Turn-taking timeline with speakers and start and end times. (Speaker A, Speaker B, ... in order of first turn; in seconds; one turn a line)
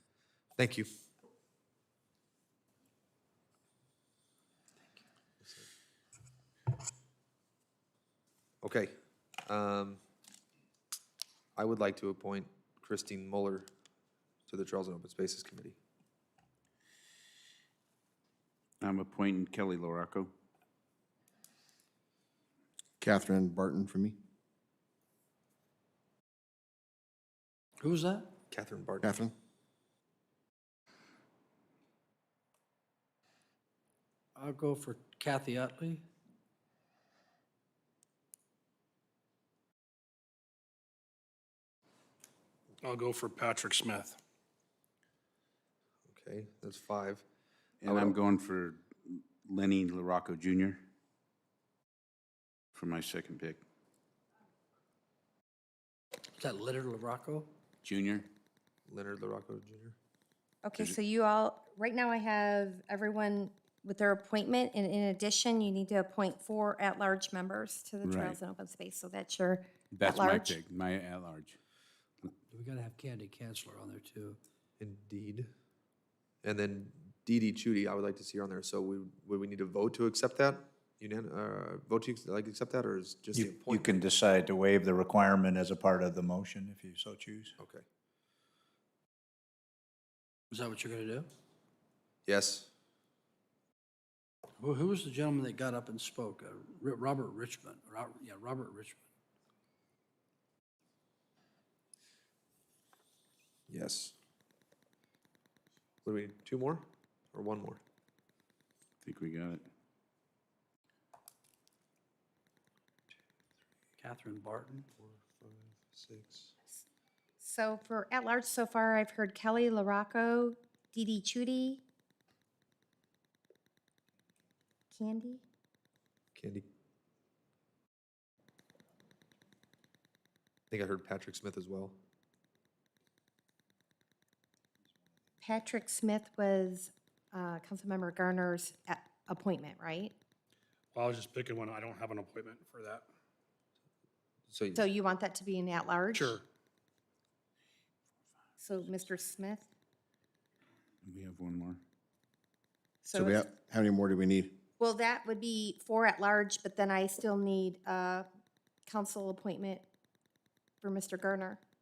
Speaker A: 0.6-0.9
Speaker A: 8.6-8.9
Speaker A: 9.4-10.0
Speaker A: 11.6-13.7
Speaker A: 14.5-15.8
Speaker B: 18.8-20.3
Speaker C: 23.0-24.2
Speaker D: 27.8-28.3
Speaker A: 28.5-29.2
Speaker C: 29.0-29.3
Speaker D: 34.3-36.0
Speaker E: 42.8-44.2
Speaker A: 46.1-47.2
Speaker B: 47.8-50.8
Speaker A: 47.8-48.1
Speaker B: 52.7-53.6
Speaker D: 56.4-57.5
Speaker B: 57.8-58.3
Speaker A: 58.9-60.0
Speaker F: 60.6-70.6
Speaker B: 68.0-68.4
Speaker B: 69.9-71.6
Speaker D: 72.5-74.4
Speaker A: 74.8-75.5
Speaker A: 76.4-84.0
Speaker G: 83.3-87.5
Speaker A: 87.6-87.8
Speaker D: 90.5-91.3
Speaker A: 92.2-92.7
Speaker D: 94.6-99.0
Speaker A: 103.7-104.1
Speaker A: 106.0-107.8
Speaker B: 109.0-109.7
Speaker D: 114.0-114.9
Speaker A: 115.0-116.5
Speaker F: 117.4-121.8
Speaker F: 124.9-125.4
Speaker A: 126.3-126.6
Speaker A: 130.7-132.0
Speaker F: 135.4-140.1
Speaker E: 140.9-143.0
Speaker A: 144.5-144.8
Speaker F: 144.7-146.4
Speaker E: 146.1-146.4
Speaker F: 148.6-149.7
Speaker B: 151.0-151.8
Speaker F: 153.0-153.4
Speaker C: 153.1-154.6
Speaker F: 154.8-158.2
Speaker F: 158.8-159.8
Speaker F: 160.8-161.6